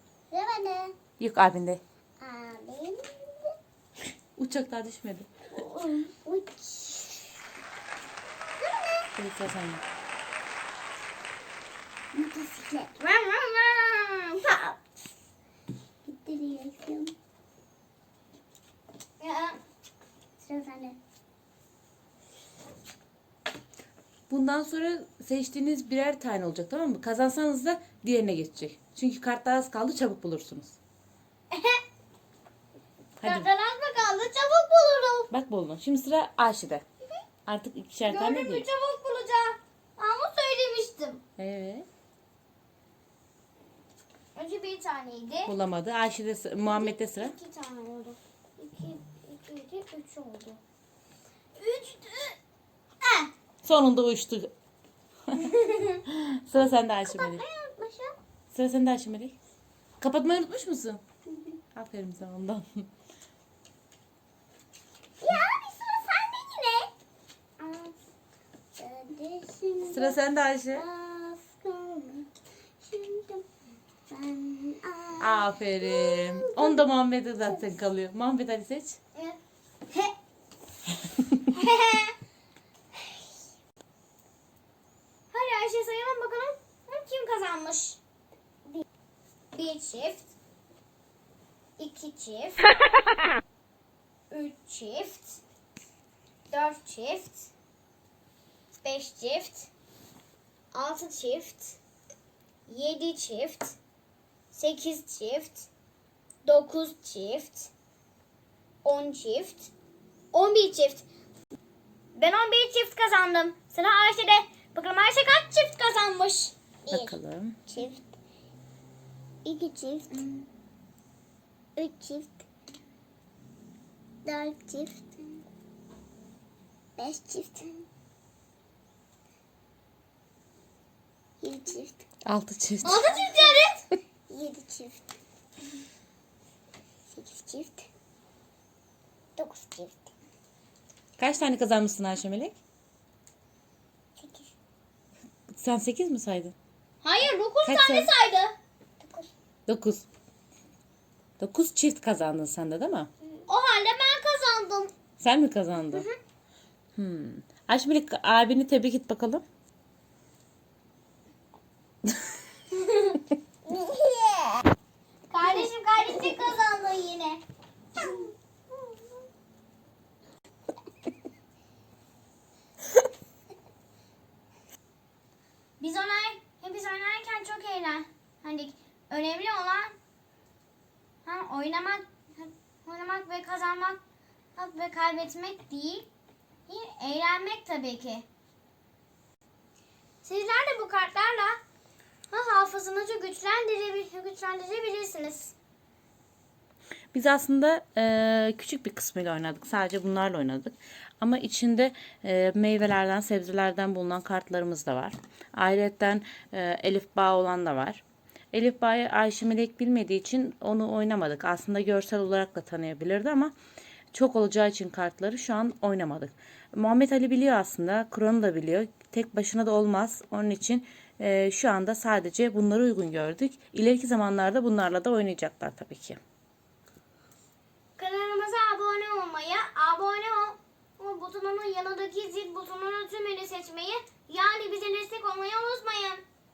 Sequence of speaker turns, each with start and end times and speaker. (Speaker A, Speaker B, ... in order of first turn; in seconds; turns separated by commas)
Speaker A: 0.3-0.9, Speaker B: 1.2-1.8, Speaker A: 2.2-3.5, Speaker B: 4.4-5.3, Speaker A: 5.5-7.3, Speaker A: 8.6-9.1, Speaker B: 9.2-9.8, Speaker A: 12.1-13.0, Speaker C: 13.0-14.4, Speaker A: 14.4-14.9, Speaker A: 16.1-17.1, Speaker C: 19.2-19.6, Speaker A: 20.4-21.0, Speaker B: 24.3-30.8, Speaker C: 31.5-31.8, Speaker B: 33.2-33.5, Speaker C: 33.2-35.3, Speaker B: 35.3-36.8, Speaker B: 37.5-38.6, Speaker C: 38.0-41.2, Speaker B: 41.4-41.9, Speaker C: 44.3-45.5, Speaker B: 45.5-47.3, Speaker C: 46.7-50.6, Speaker C: 51.5-52.4, Speaker C: 53.0-53.3, Speaker B: 53.6-54.5, Speaker B: 55.3-55.5, Speaker C: 55.4-56.0, Speaker B: 56.0-57.4, Speaker A: 57.0-58.1, Speaker B: 58.5-59.4, Speaker B: 60.0-61.0, Speaker A: 61.3-61.6, Speaker B: 61.7-62.9, Speaker A: 65.2-66.9, Speaker A: 67.6-68.0, Speaker A: 68.8-70.2, Speaker B: 69.8-70.8, Speaker A: 70.7-72.3, Speaker A: 72.8-73.4, Speaker A: 74.1-76.8, Speaker B: 75.2-79.0, Speaker C: 81.5-82.1, Speaker C: 85.3-88.0, Speaker C: 89.5-90.3, Speaker C: 91.8-92.7, Speaker C: 94.3-95.4, Speaker C: 96.5-97.5, Speaker C: 98.8-99.7, Speaker C: 100.7-101.8, Speaker C: 102.7-103.8, Speaker C: 104.5-105.7, Speaker C: 106.4-107.7, Speaker C: 108.8-109.7, Speaker C: 110.3-111.0, Speaker C: 112.1-116.5, Speaker A: 116.8-118.1, Speaker B: 116.9-117.6, Speaker A: 119.4-120.3, Speaker A: 121.8-122.4, Speaker A: 124.2-125.2, Speaker A: 127.0-127.7, Speaker A: 131.4-132.0, Speaker B: 132.2-133.1, Speaker C: 132.8-133.8, Speaker A: 133.0-133.6, Speaker A: 134.3-135.0, Speaker A: 137.1-137.9, Speaker A: 139.3-140.1, Speaker B: 141.2-142.6, Speaker A: 144.2-144.5, Speaker B: 145.5-146.5, Speaker C: 147.0-148.5, Speaker B: 147.6-148.1, Speaker A: 149.0-149.3, Speaker B: 149.7-150.1, Speaker B: 151.4-153.1, Speaker C: 153.5-154.9, Speaker B: 155.2-156.1, Speaker B: 156.9-159.4, Speaker C: 162.7-163.2, Speaker A: 163.7-164.7, Speaker C: 165.3-167.4, Speaker A: 166.1-166.3, Speaker A: 167.9-168.3, Speaker C: 168.0-168.3, Speaker C: 175.8-179.9, Speaker C: 181.2-184.0, Speaker C: 184.6-186.1, Speaker C: 186.7-188.2, Speaker C: 190.2-191.6, Speaker C: 192.3-195.5, Speaker B: 197.1-213.5, Speaker B: 214.1-226.2, Speaker C: 228.0-236.2